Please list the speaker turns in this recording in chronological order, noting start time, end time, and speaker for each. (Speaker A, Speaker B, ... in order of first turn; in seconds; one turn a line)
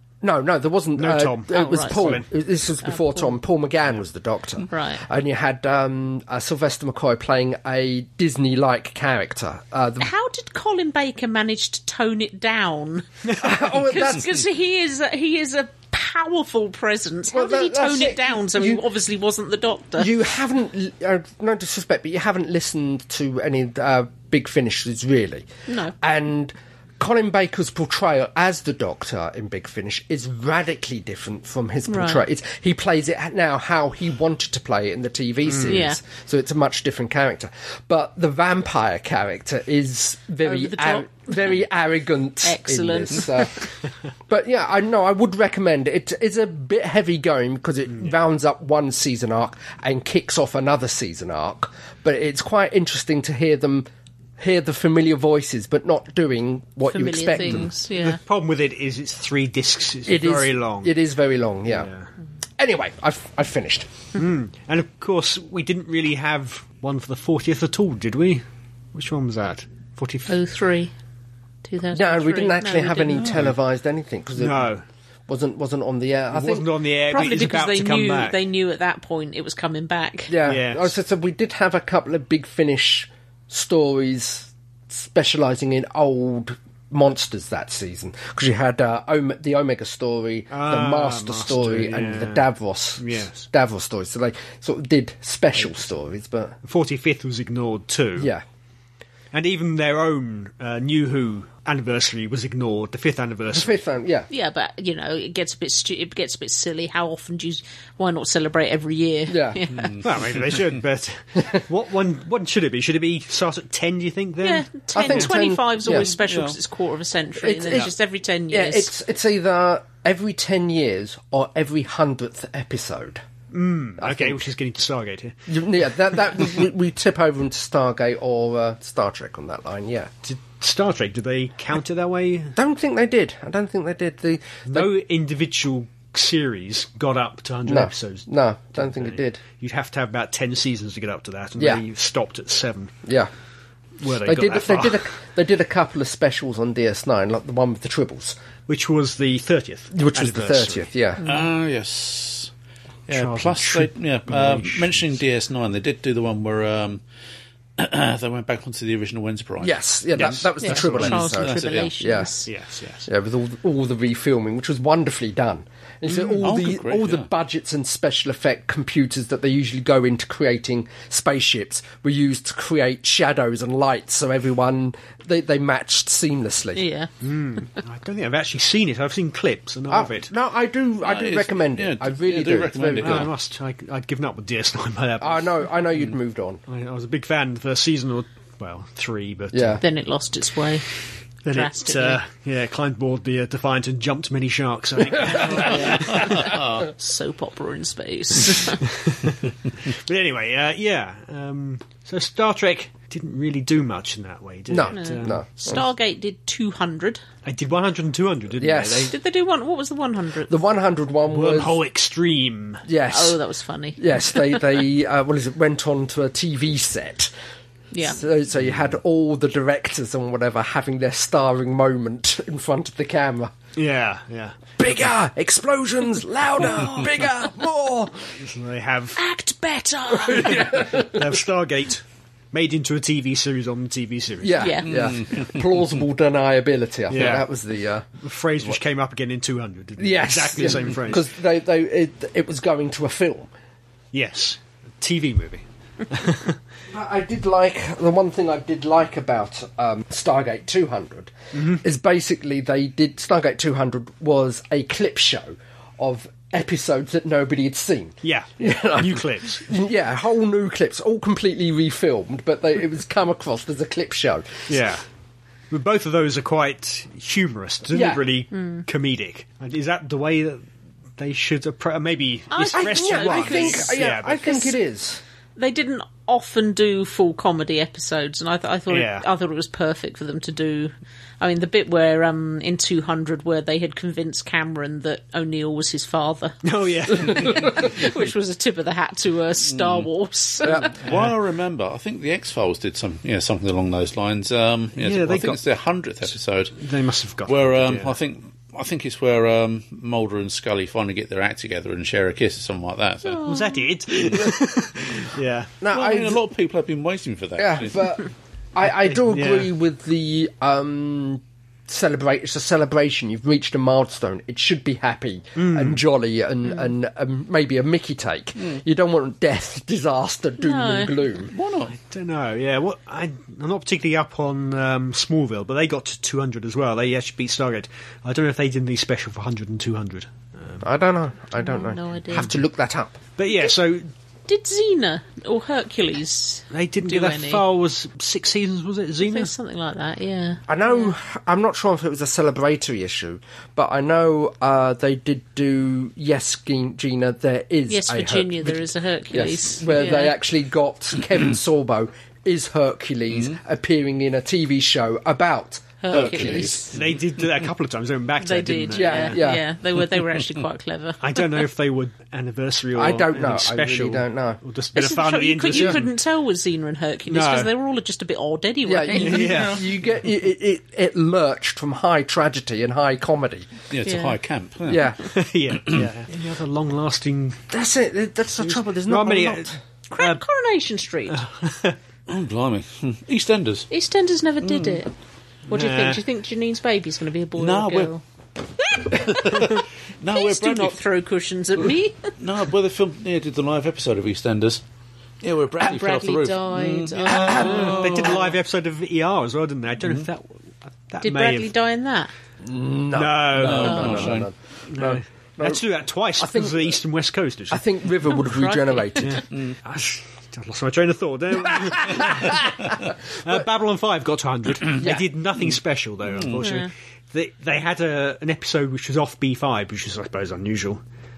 Speaker A: 0.2-10.1
Speaker B: 1.0-2.3
Speaker C: 1.5-2.2
Speaker C: 2.8-3.4
Speaker C: 4.7-5.0
Speaker C: 10.0-20.1
Speaker A: 13.4-14.4
Speaker A: 17.3-18.8
Speaker A: 20.0-25.5
Speaker C: 25.7-25.9
Speaker A: 26.0-43.7
Speaker C: 31.9-32.2
Speaker B: 35.5-35.8
Speaker C: 35.7-36.0
Speaker C: 40.4-41.6
Speaker C: 42.4-43.6
Speaker A: 44.3-57.7
Speaker C: 56.9-58.2
Speaker B: 57.5-60.9
Speaker A: 60.0-61.9
Speaker B: 61.7-62.1
Speaker A: 62.6-63.9
Speaker B: 64.2-70.4
Speaker C: 70.3-70.9
Speaker C: 71.7-73.3
Speaker A: 71.9-74.7
Speaker D: 73.2-73.5
Speaker B: 74.4-74.8
Speaker A: 75.3-77.3
Speaker B: 76.3-78.4
Speaker C: 77.1-80.3
Speaker A: 80.3-96.6
Speaker B: 80.5-80.9
Speaker B: 90.5-93.5
Speaker B: 96.6-98.3
Speaker A: 98.2-98.4
Speaker B: 99.3-103.7
Speaker A: 103.5-104.3
Speaker C: 104.3-110.0
Speaker A: 109.3-109.6
Speaker D: 109.8-110.8
Speaker B: 110.0-115.3
Speaker C: 114.4-118.9
Speaker A: 114.9-116.1
Speaker D: 116.2-116.6
Speaker A: 117.4-117.9
Speaker A: 118.5-123.2
Speaker B: 123.5-125.4
Speaker A: 124.0-124.4
Speaker A: 125.5-130.1
Speaker B: 130.2-132.6
Speaker A: 132.6-134.9
Speaker B: 134.7-142.9
Speaker A: 137.7-139.4
Speaker A: 141.6-141.8
Speaker A: 143.1-143.3
Speaker B: 144.0-145.0
Speaker A: 144.1-148.4
Speaker B: 148.7-150.8
Speaker A: 149.9-151.2
Speaker C: 151.2-151.5
Speaker D: 151.2-152.5
Speaker D: 153.1-157.0
Speaker B: 153.1-155.0
Speaker D: 157.8-161.9
Speaker A: 159.6-162.3
Speaker C: 160.6-162.5
Speaker B: 162.5-163.1
Speaker A: 163.1-176.8
Speaker D: 166.1-167.3
Speaker C: 176.8-177.1
Speaker B: 177.2-180.3
Speaker A: 179.9-183.3
Speaker D: 181.0-183.3
Speaker B: 183.0-186.1
Speaker A: 185.2-186.6
Speaker B: 186.7-189.8
Speaker A: 189.5-189.8
Speaker C: 189.8-190.8
Speaker B: 191.4-196.6
Speaker C: 191.5-192.2
Speaker C: 195.2-198.8
Speaker B: 198.9-205.4
Speaker A: 204.7-205.8
Speaker C: 204.9-207.2
Speaker B: 207.4-209.2
Speaker A: 208.6-209.1
Speaker C: 209.1-210.6
Speaker A: 210.5-211.8
Speaker B: 211.3-212.9
Speaker A: 212.8-213.4
Speaker C: 213.1-214.7
Speaker A: 214.0-217.3
Speaker C: 217.9-218.2
Speaker A: 218.0-223.5
Speaker B: 223.8-224.7
Speaker A: 224.8-228.3
Speaker B: 228.4-229.2
Speaker C: 229.2-230.5
Speaker A: 230.2-231.4
Speaker B: 230.2-234.8
Speaker A: 234.4-238.1
Speaker C: 234.6-234.9
Speaker D: 234.9-235.4
Speaker B: 237.1-237.5
Speaker B: 238.2-241.3
Speaker A: 240.0-243.5
Speaker B: 244.1-246.6
Speaker A: 246.9-264.8
Speaker B: 251.5-251.8
Speaker B: 258.2-259.7
Speaker B: 264.7-265.0
Speaker B: 265.7-270.7
Speaker A: 267.9-268.2
Speaker C: 268.5-268.8
Speaker B: 271.2-274.6
Speaker C: 272.5-274.8
Speaker A: 272.7-275.2
Speaker C: 275.6-290.9
Speaker B: 278.9-279.3
Speaker B: 286.6-288.0
Speaker D: 289.7-290.1
Speaker D: 290.6-296.8
Speaker B: 291.1-291.4
Speaker B: 295.0-295.6
Speaker B: 296.8-298.2
Speaker D: 297.4-303.5
Speaker C: 303.2-303.9
Speaker B: 303.4-305.7
Speaker A: 305.8-306.4
Speaker D: 305.9-308.1
Speaker A: 307.6-321.5
Speaker B: 309.0-309.7
Speaker B: 315.6-316.0
Speaker C: 320.6-321.2
Speaker D: 321.5-322.0
Speaker B: 322.0-330.9
Speaker A: 330.8-333.2
Speaker C: 331.6-332.5
Speaker B: 333.4-334.1
Speaker C: 334.5-337.7
Speaker B: 336.7-339.5
Speaker C: 339.2-341.1
Speaker A: 340.7-356.9
Speaker C: 347.9-350.4
Speaker C: 356.0-356.9
Speaker D: 356.1-356.7
Speaker B: 356.9-359.5
Speaker C: 358.4-361.7
Speaker A: 358.9-359.6
Speaker B: 361.2-366.1
Speaker A: 362.9-364.6
Speaker C: 364.9-369.6
Speaker B: 367.3-367.7
Speaker A: 368.9-373.7
Speaker B: 369.2-369.9
Speaker D: 369.3-369.8
Speaker D: 373.9-375.1
Speaker C: 374.1-374.4
Speaker A: 374.9-375.2
Speaker B: 375.2-377.6
Speaker A: 377.7-379.8
Speaker B: 378.6-380.4
Speaker C: 380.1-381.4
Speaker B: 381.3-382.0
Speaker D: 382.3-383.9
Speaker C: 383.9-385.1
Speaker D: 384.6-385.0
Speaker B: 385.7-386.2
Speaker C: 385.7-388.2
Speaker D: 387.6-388.1
Speaker C: 388.8-392.3
Speaker D: 389.2-391.0
Speaker D: 392.4-394.8
Speaker D: 395.4-398.5
Speaker C: 395.8-398.1
Speaker A: 397.4-397.9
Speaker B: 397.5-401.7
Speaker C: 401.2-402.3
Speaker A: 402.6-405.8
Speaker B: 403.1-404.4
Speaker D: 403.5-404.5
Speaker C: 403.8-404.2
Speaker B: 404.9-407.9
Speaker A: 406.4-407.0
Speaker A: 407.7-409.4
Speaker C: 408.5-409.1
Speaker B: 409.2-421.0
Speaker A: 411.6-412.6
Speaker A: 415.0-415.4
Speaker D: 416.2-416.6
Speaker C: 416.6-416.9